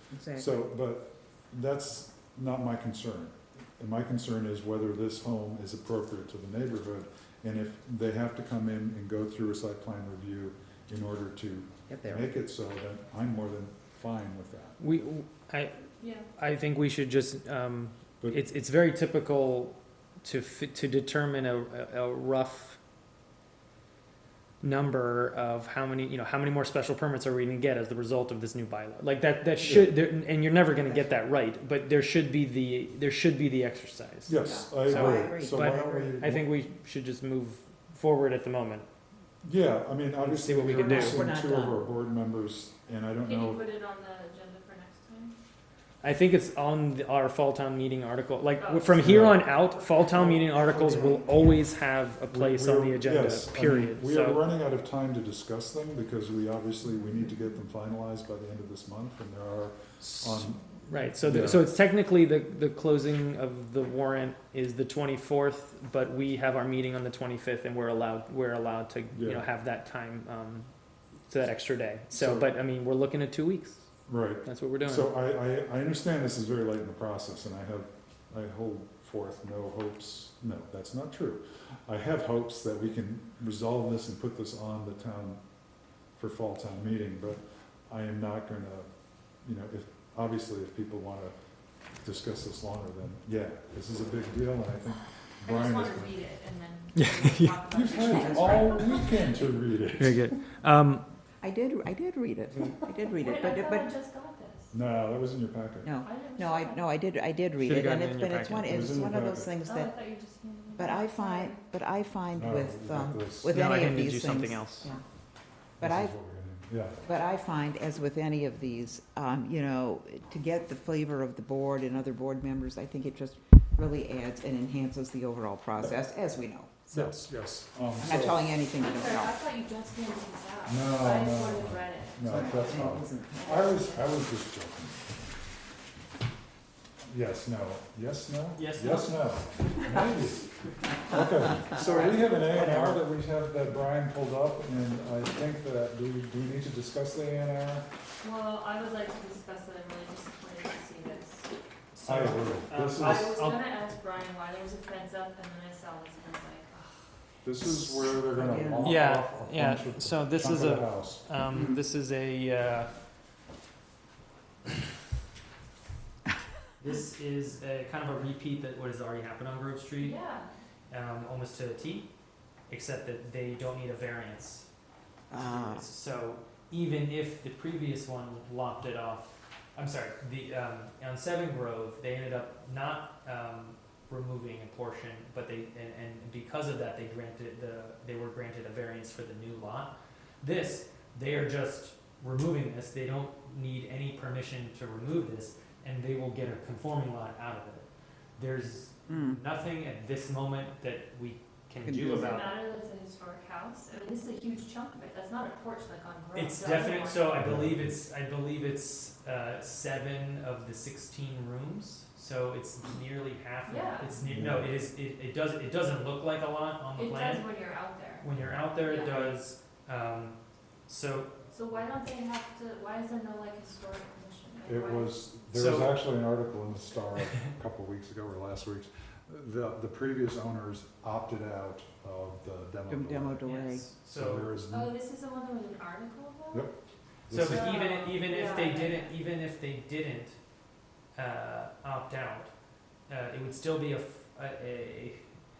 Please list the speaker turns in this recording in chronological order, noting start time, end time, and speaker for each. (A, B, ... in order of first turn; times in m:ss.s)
0:00.1-0:00.6 A
0:00.3-0:14.8 B
0:11.9-0:12.3 A
0:14.8-0:22.8 C
0:16.0-0:16.2 D
0:24.6-0:38.9 C
0:29.6-0:29.9 B
0:34.3-0:36.5 B
0:34.4-0:36.1 A
0:39.4-0:43.6 B
0:40.2-0:41.2 C
0:40.7-0:41.8 A
0:43.2-0:45.3 D
0:46.0-0:54.4 C
0:48.6-0:51.1 D
0:49.0-0:49.4 B
0:50.8-0:51.1 A
0:52.3-1:01.7 B
1:00.0-1:10.7 C
1:09.1-1:09.4 B
1:11.3-1:13.8 C
1:12.1-1:12.5 B
1:14.1-1:25.4 B
1:14.4-1:15.1 C
1:26.2-1:28.9 B
1:29.4-1:31.3 B
1:32.0-1:36.2 B
1:35.4-1:39.4 D
1:36.9-1:37.6 C
1:37.7-1:40.3 B
1:38.0-1:39.0 A
1:40.0-1:41.0 C
1:41.4-1:43.9 A
1:43.2-1:44.7 D
1:44.7-1:45.9 B
1:45.8-1:50.0 A
1:46.0-1:46.8 D
1:47.6-1:48.9 C
1:48.6-1:49.5 B
1:49.6-1:51.6 D
1:50.8-1:55.0 A
1:52.3-1:53.6 B
1:53.5-1:54.9 C
1:55.8-1:56.1 A
1:55.8-1:57.0 B
1:57.0-2:06.8 A
2:06.9-2:07.3 C
2:06.9-2:08.4 B
2:08.0-2:09.4 A
2:08.8-2:14.2 D
2:10.7-2:15.2 B
2:12.2-2:13.7 A
2:17.1-2:20.4 B
2:18.6-2:20.9 C
2:21.1-2:27.8 B
2:21.5-2:23.0 C
2:28.2-2:31.5 D
2:31.9-2:33.8 C
2:32.0-2:33.4 B
2:33.0-2:37.1 D
2:37.4-2:41.2 B
2:38.4-2:38.9 A
2:38.8-2:42.9 C
2:46.8-2:50.2 C
2:50.0-2:50.5 D
2:50.9-2:52.1 C
2:52.7-2:54.7 C
2:55.3-2:55.8 A
2:55.3-3:22.6 C
3:19.1-3:19.4 A
3:21.8-3:22.4 A
3:22.1-3:27.4 D
3:26.3-3:37.5 C
3:27.4-3:28.0 B
3:33.6-3:34.1 D
3:34.2-3:34.7 B
3:37.0-3:38.3 D
3:38.2-3:41.3 C
3:38.8-3:39.3 D
3:41.5-3:45.2 D
3:44.6-3:53.4 B
3:45.5-3:46.0 C
3:52.9-3:53.8 A
3:53.4-3:54.6 C
3:54.1-3:54.9 B
3:54.7-3:56.7 D
3:57.3-3:57.6 B
3:57.3-4:00.4 C
3:57.4-3:59.1 D
4:01.1-4:02.5 C
4:03.1-4:05.2 C